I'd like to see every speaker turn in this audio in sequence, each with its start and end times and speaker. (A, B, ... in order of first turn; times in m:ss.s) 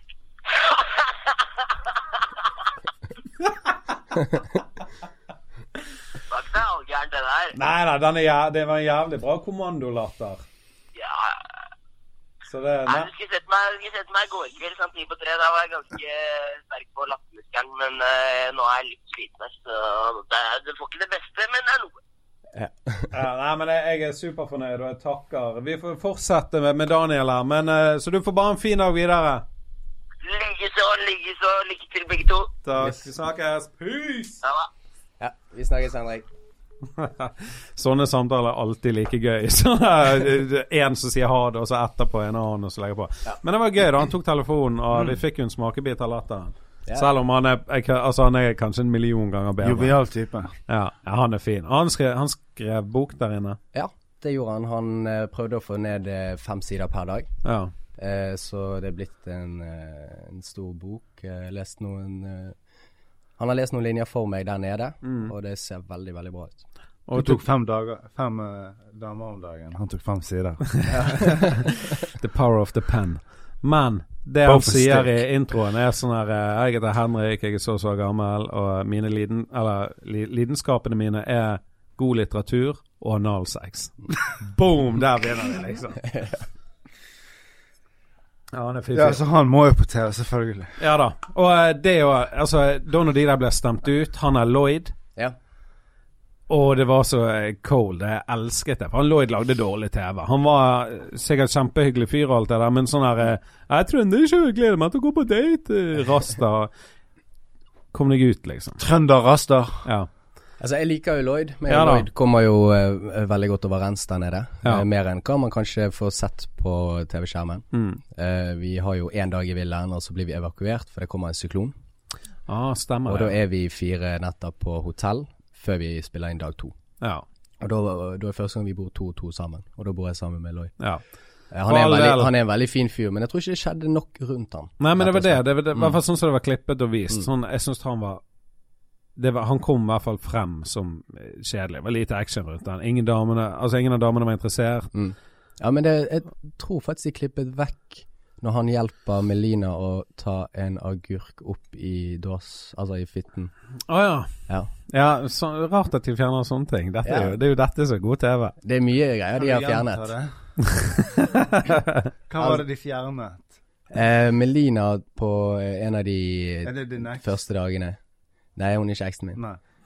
0:00.5-0:02.4 A
0:03.4-0:03.7 B
0:06.3-0:07.6 A
0:07.5-0:10.4 B
0:11.0-0:11.4 A
0:12.5-0:13.1 B
0:12.9-0:22.0 A
0:22.6-0:23.1 C
0:23.1-0:29.4 B
0:30.2-0:32.5 A
0:32.6-0:34.4 B
0:34.4-0:34.7 A
0:35.2-0:36.3 C
0:37.0-0:49.9 B
0:44.9-0:45.2 D
0:49.6-0:50.6 D
0:50.7-0:53.6 B
0:53.7-0:57.3 C
0:57.4-0:57.7 B
0:58.0-1:02.6 C
1:03.4-1:06.6 C
1:05.0-1:05.3 B
1:07.1-1:07.4 B
1:07.1-1:11.5 D
1:11.0-1:11.4 C
1:11.4-1:26.1 B
1:14.4-1:15.2 D
1:28.5-1:29.2 B
1:28.9-1:30.8 D
1:30.8-1:35.0 B
1:36.5-1:46.7 B
1:47.9-1:48.8 B
1:48.8-1:49.9 D
1:50.6-2:01.8 C
1:51.7-1:52.1 B
1:57.7-1:58.0 B
2:02.5-2:03.4 B
2:03.1-2:06.8 C
2:07.6-2:10.7 C
2:11.5-2:16.0 C
2:11.7-2:12.3 B
2:14.8-2:18.2 B
2:19.2-2:24.9 B
2:24.9-2:33.5 C
2:33.9-2:34.3 B
2:34.9-2:38.6 B
2:37.0-2:37.4 C
2:38.6-2:40.1 C
2:39.4-2:40.3 D
2:40.8-2:42.0 B
2:42.3-2:43.6 D
2:43.9-2:48.0 C
2:46.6-2:47.3 D
2:48.6-2:49.4 C